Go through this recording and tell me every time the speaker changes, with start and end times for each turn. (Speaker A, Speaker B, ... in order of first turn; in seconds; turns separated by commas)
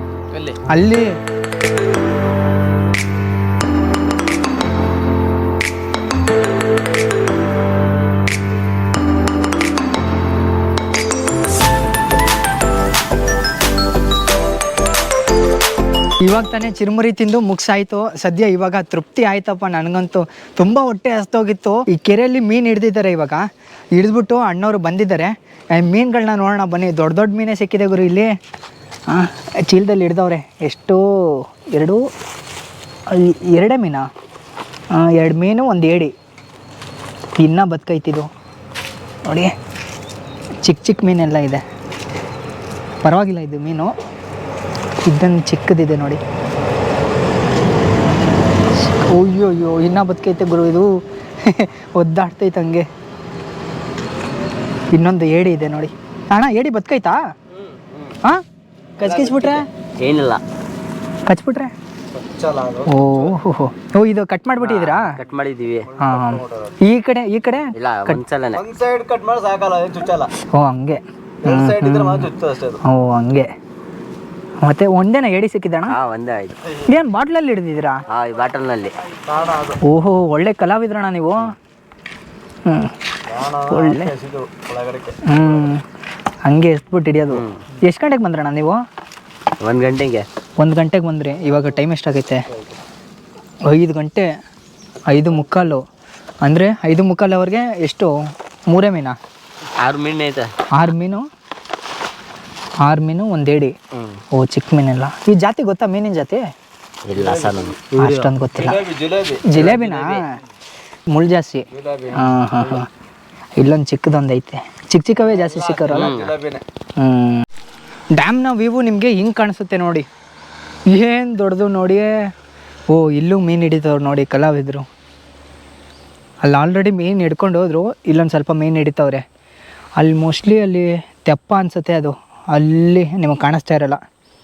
Speaker A: 0.3-0.6, Speaker B: 0.7-1.1, Speaker B: 16.2-28.4, Speaker B: 29.1-32.0, Speaker B: 33.1-34.1, Speaker B: 34.9-36.1, Speaker B: 37.4-38.3, Speaker B: 39.2-39.5, Speaker B: 40.6-41.6, Speaker B: 43.0-43.9, Speaker B: 45.0-46.2, Speaker B: 48.8-52.9, Speaker B: 54.9-57.2, Speaker B: 59.0-59.6, Speaker A: 59.0-59.5, Speaker C: 60.0-60.4, Speaker B: 61.2-61.7, Speaker A: 62.1-63.4, Speaker B: 62.9-65.2, Speaker C: 64.9-65.9, Speaker A: 65.9-66.7, Speaker B: 66.0-68.2, Speaker C: 67.8-68.6, Speaker A: 68.5-70.3, Speaker B: 70.4-72.3, Speaker A: 71.4-72.8, Speaker B: 72.8-73.5, Speaker B: 74.6-76.0, Speaker C: 75.9-76.6, Speaker B: 76.8-78.0, Speaker C: 78.1-79.0, Speaker A: 79.3-79.8, Speaker B: 79.8-81.5, Speaker B: 82.7-82.9, Speaker A: 83.3-85.2, Speaker B: 83.6-84.1, Speaker B: 85.2-85.8, Speaker B: 86.4-88.8, Speaker C: 87.3-87.6, Speaker C: 89.6-90.2, Speaker B: 90.6-92.4, Speaker B: 93.7-94.3, Speaker B: 95.1-95.8, Speaker B: 96.4-98.1, Speaker B: 98.7-99.2, Speaker C: 99.8-100.5, Speaker B: 100.7-101.2, Speaker B: 102.8-103.8, Speaker B: 104.3-106.4, Speaker C: 107.0-108.3, Speaker A: 107.2-107.7, Speaker B: 108.0-108.9, Speaker A: 108.6-110.2, Speaker B: 109.4-110.4, Speaker B: 111.1-112.9, Speaker A: 111.7-112.3, Speaker B: 113.6-116.2, Speaker A: 115.5-116.6, Speaker C: 115.9-116.4, Speaker B: 117.0-117.5, Speaker B: 118.1-120.0, Speaker B: 120.9-122.3, Speaker B: 122.9-124.8, Speaker B: 126.4-129.2, Speaker B: 130.0-134.0